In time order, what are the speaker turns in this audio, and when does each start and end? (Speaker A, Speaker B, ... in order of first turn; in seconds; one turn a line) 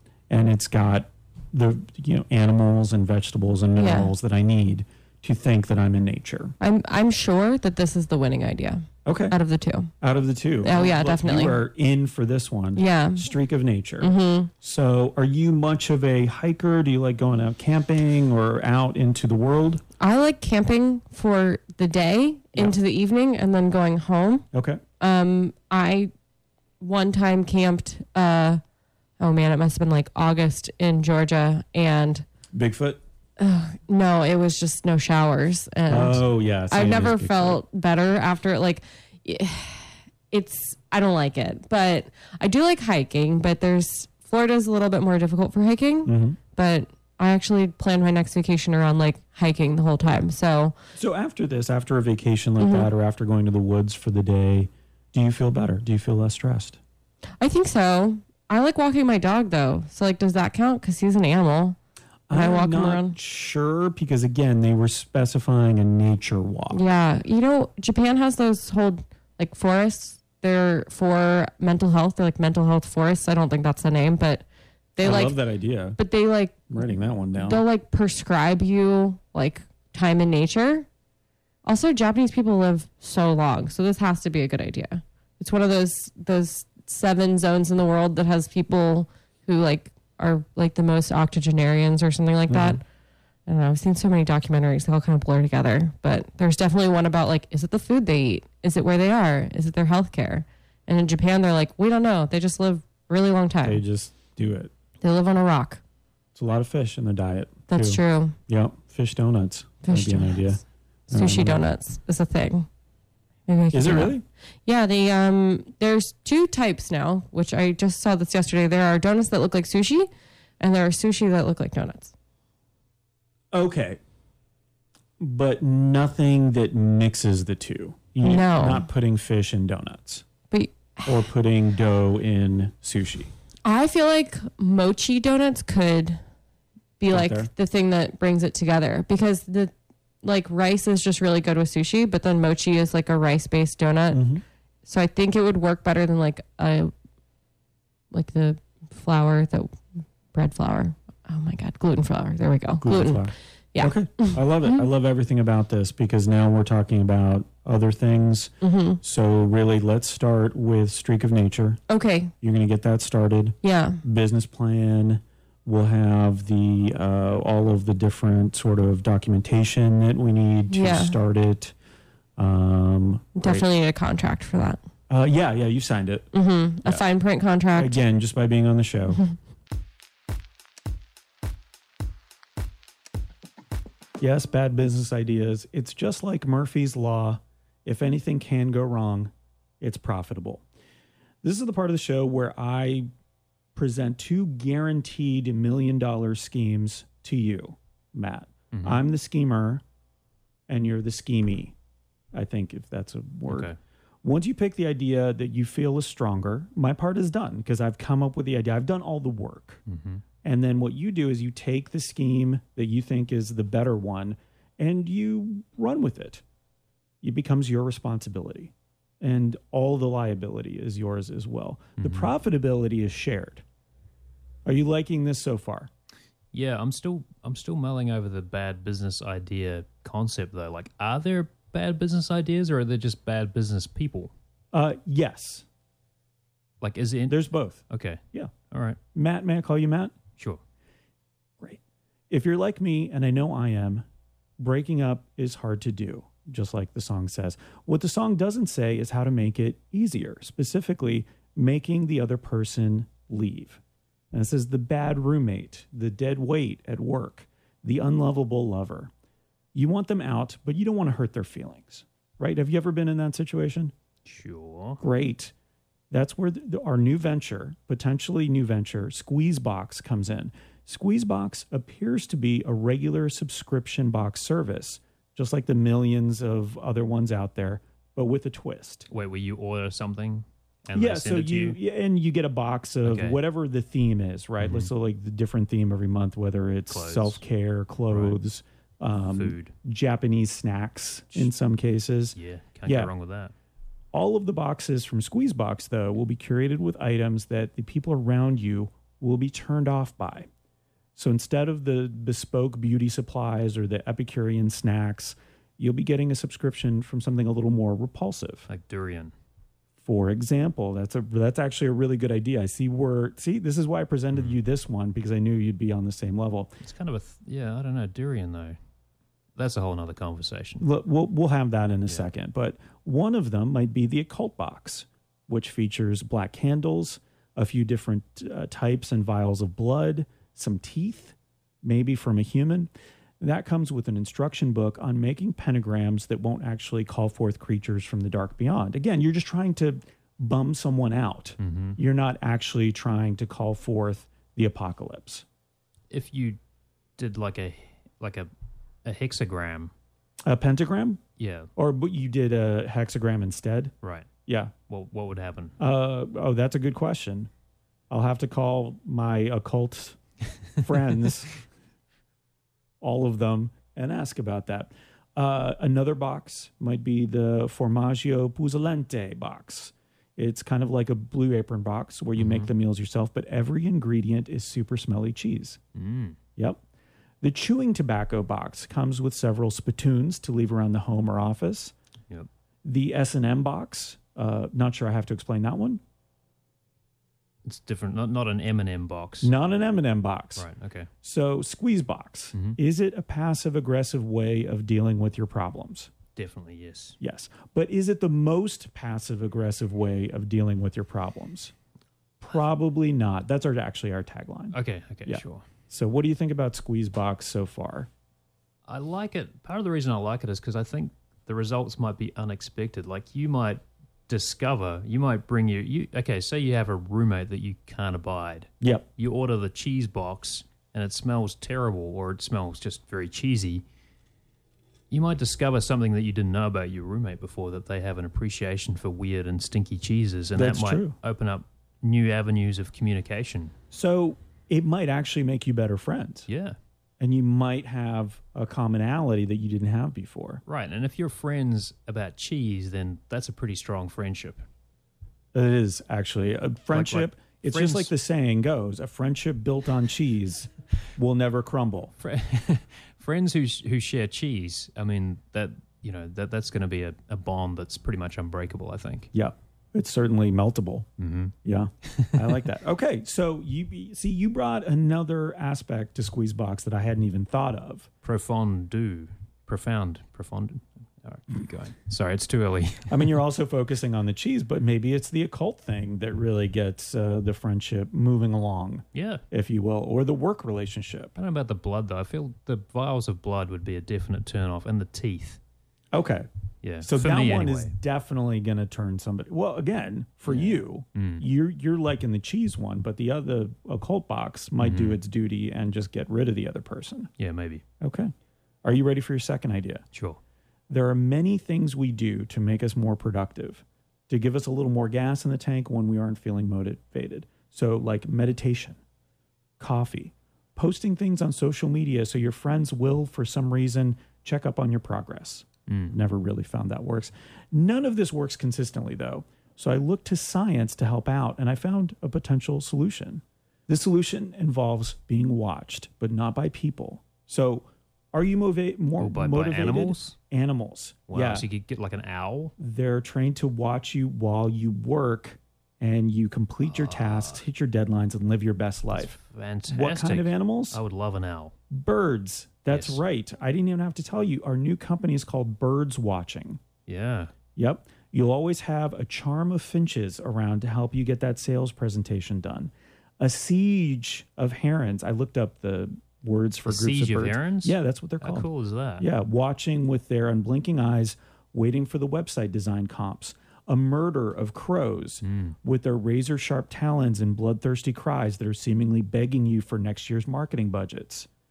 Speaker A: 0.3-6.5
Speaker B: 3.8-4.1
Speaker B: 6.6-9.9
Speaker A: 9.0-9.3
Speaker A: 10.0-19.8
Speaker B: 10.6-11.6
Speaker B: 12.8-13.2
Speaker B: 14.0-14.5
Speaker B: 20.0-24.4
Speaker A: 24.5-24.8
Speaker B: 25.0-26.1
Speaker B: 26.8-28.6
Speaker B: 29.2-32.2
Speaker A: 32.5-33.0
Speaker B: 33.4-50.7
Speaker A: 35.9-37.6
Speaker A: 46.0-46.4
Speaker A: 51.0-56.8
Speaker B: 52.6-52.9
Speaker B: 57.4-61.8
Speaker A: 62.3-66.8
Speaker B: 62.3-63.1
Speaker B: 66.7-74.4
Speaker B: 75.0-75.4
Speaker A: 75.0-76.0
Speaker B: 76.0-76.7
Speaker A: 76.7-77.6
Speaker B: 77.3-80.9
Speaker B: 81.6-92.8
Speaker A: 92.5-92.8
Speaker B: 93.5-103.8
Speaker A: 103.6-104.7
Speaker B: 105.0-105.8
Speaker A: 106.3-111.6
Speaker B: 107.7-108.3
Speaker B: 109.8-110.6
Speaker B: 111.1-112.7
Speaker B: 113.5-114.1
Speaker A: 113.7-114.2
Speaker B: 114.7-120.1
Speaker B: 120.6-122.1
Speaker A: 123.5-124.0
Speaker A: 125.2-130.2
Speaker B: 128.2-128.8
Speaker B: 130.5-131.2
Speaker A: 131.0-133.3
Speaker B: 133.6-136.2
Speaker B: 137.0-139.7
Speaker A: 137.1-137.5
Speaker B: 140.2-144.2
Speaker A: 144.1-144.4
Speaker B: 144.8-146.9
Speaker B: 148.1-149.8
Speaker B: 150.3-154.8
Speaker A: 152.8-161.8
Speaker B: 158.6-159.0
Speaker B: 161.9-162.3
Speaker A: 162.4-171.7
Speaker B: 163.6-164.0
Speaker B: 170.7-171.2
Speaker A: 172.4-173.6
Speaker B: 173.4-174.8
Speaker A: 175.1-176.3
Speaker B: 176.3-178.0
Speaker A: 177.8-179.2
Speaker A: 184.2-190.6
Speaker A: 191.4-193.1
Speaker A: 193.7-199.8
Speaker C: 198.7-199.0
Speaker A: 200.7-201.7
Speaker A: 202.3-203.7
Speaker C: 203.5-203.8
Speaker A: 204.2-209.8
Speaker C: 209.9-210.2
Speaker A: 210.4-216.4
Speaker A: 217.2-223.6
Speaker C: 222.0-222.3
Speaker A: 224.7-225.9
Speaker C: 226.5-234.3
Speaker A: 234.7-235.6
Speaker C: 236.8-239.0
Speaker A: 237.3-238.5
Speaker A: 239.1-240.2
Speaker A: 242.3-244.0
Speaker A: 244.6-253.8
Speaker A: 254.3-259.1
Speaker A: 259.7-263.9
Speaker C: 264.2-265.0
Speaker A: 265.0-265.5
Speaker A: 266.1-279.1
Speaker C: 279.1-281.8
Speaker A: 280.9-293.1
Speaker C: 283.0-283.4
Speaker C: 284.6-284.9
Speaker C: 286.9-287.4
Speaker C: 288.1-288.4
Speaker C: 289.2-289.7
Speaker C: 292.3-293.5
Speaker A: 294.1-300.5
Speaker A: 301.1-308.7
Speaker C: 308.7-309.3
Speaker A: 310.0-316.8
Speaker C: 314.3-314.6
Speaker C: 316.8-318.8
Speaker C: 319.6-320.9
Speaker A: 320.8-345.4
Speaker C: 341.6-342.0
Speaker C: 346.1-346.6
Speaker C: 347.2-348.5
Speaker C: 349.0-349.9
Speaker A: 350.4-351.2
Speaker C: 351.4-351.7
Speaker A: 351.8-353.9
Speaker C: 354.0-354.3
Speaker A: 354.5-354.7
Speaker C: 354.8-355.8
Speaker A: 355.8-357.5
Speaker A: 358.1-360.2
Speaker A: 360.8-361.6
Speaker A: 363.0-375.8
Speaker C: 372.4-372.7
Speaker C: 375.9-376.4
Speaker A: 377.4-381.9
Speaker A: 382.8-386.0
Speaker C: 387.6-389.5
Speaker A: 389.4-390.7
Speaker C: 390.6-391.1
Speaker A: 391.2-396.1
Speaker C: 396.3-397.2
Speaker A: 397.2-401.7
Speaker A: 402.4-408.1
Speaker C: 404.7-405.7
Speaker C: 408.9-423.8
Speaker A: 418.8-419.1
Speaker C: 425.1-433.7
Speaker A: 430.6-431.2
Speaker A: 433.9-436.5
Speaker C: 436.5-436.8
Speaker A: 437.2-440.6
Speaker C: 440.6-444.6
Speaker A: 445.5-452.1
Speaker C: 446.9-448.1
Speaker C: 452.2-459.3
Speaker A: 459.3-461.1
Speaker C: 461.2-462.5
Speaker A: 461.6-468.1
Speaker C: 468.2-473.3
Speaker A: 473.1-481.3
Speaker C: 479.1-479.4
Speaker C: 481.4-485.6
Speaker A: 486.1-486.5
Speaker C: 486.8-487.9
Speaker A: 487.0-497.3
Speaker C: 490.4-491.4
Speaker C: 494.8-495.2
Speaker C: 497.4-497.8
Speaker A: 498.0-498.3
Speaker A: 498.8-500.0
Speaker C: 500.1-500.4
Speaker A: 500.9-509.0
Speaker A: 509.8-531.6
Speaker C: 515.9-516.2
Speaker C: 529.2-530.4
Speaker C: 531.3-532.7
Speaker A: 532.8-539.4
Speaker C: 536.9-537.6
Speaker C: 539.1-541.8
Speaker A: 539.9-541.0
Speaker A: 541.9-546.8
Speaker C: 542.9-543.2
Speaker C: 547.1-547.5
Speaker A: 547.7-558.7
Speaker C: 556.9-559.3
Speaker A: 559.2-571.5
Speaker C: 565.4-565.7